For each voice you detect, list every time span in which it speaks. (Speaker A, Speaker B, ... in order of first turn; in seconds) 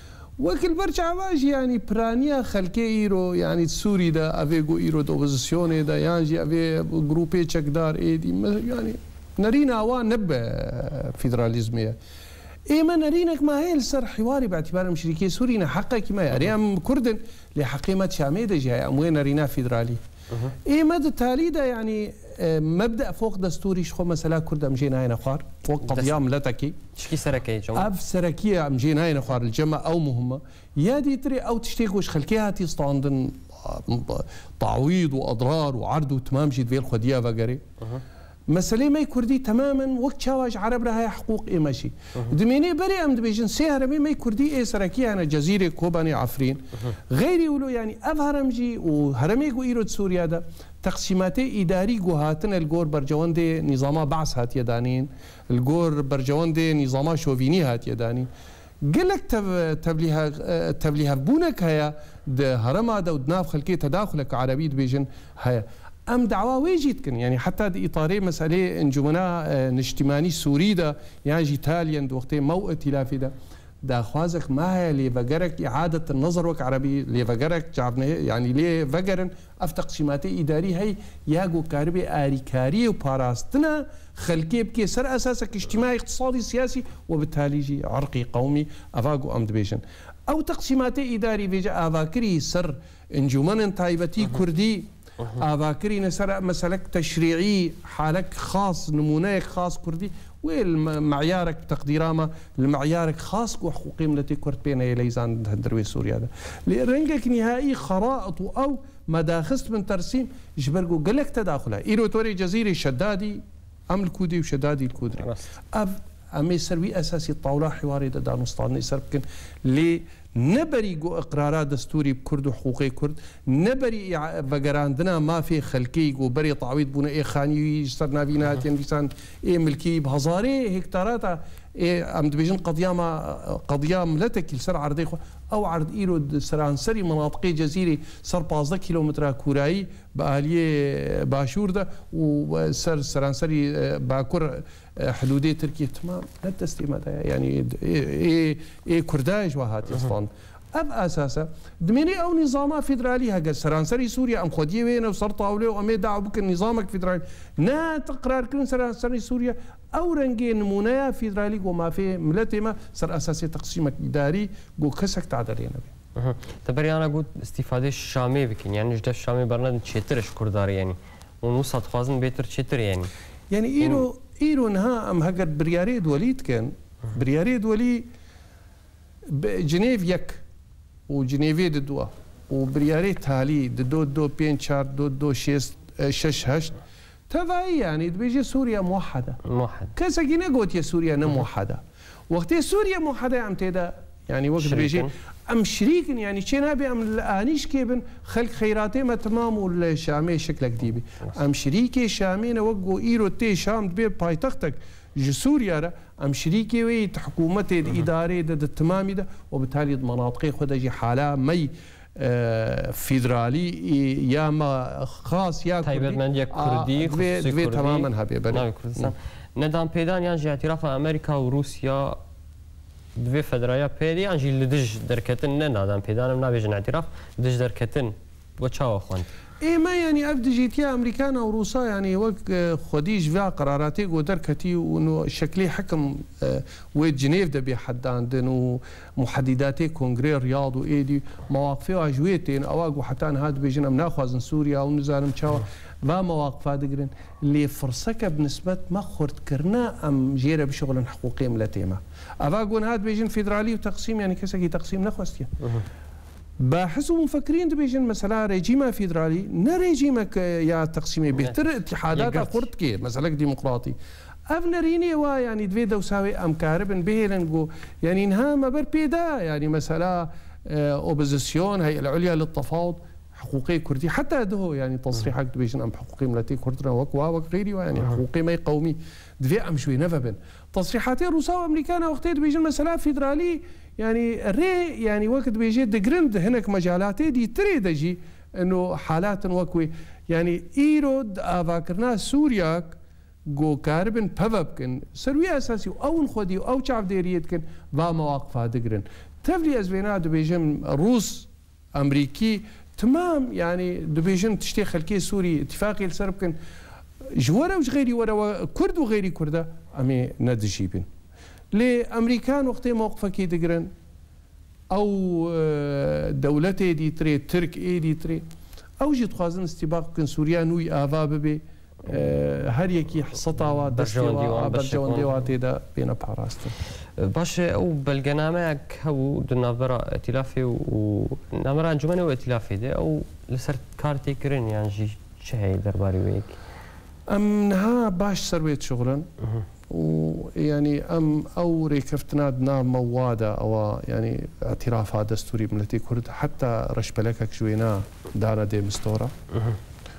Speaker A: 0.4-12.0, 12.7-20.0, 20.6-26.8, 27.7-37.6, 38.5-58.3, 58.8-165.9, 173.5-178.1, 179.2-180.4, 181.1-189.4, 189.9-219.1, 229.6-255.7, 256.6-306.6, 307.3-311.1, 311.7-313.9, 314.9-318.4, 319.0-326.7, 337.3-339.3, 339.9-349.3
Speaker B: 25.9-26.2, 26.9-27.9, 166.2-173.1, 189.4-189.9, 194.6-195.1, 215.8-222.2, 223.2-229.3, 262.1-262.7, 323.9-325.4, 327.2-336.6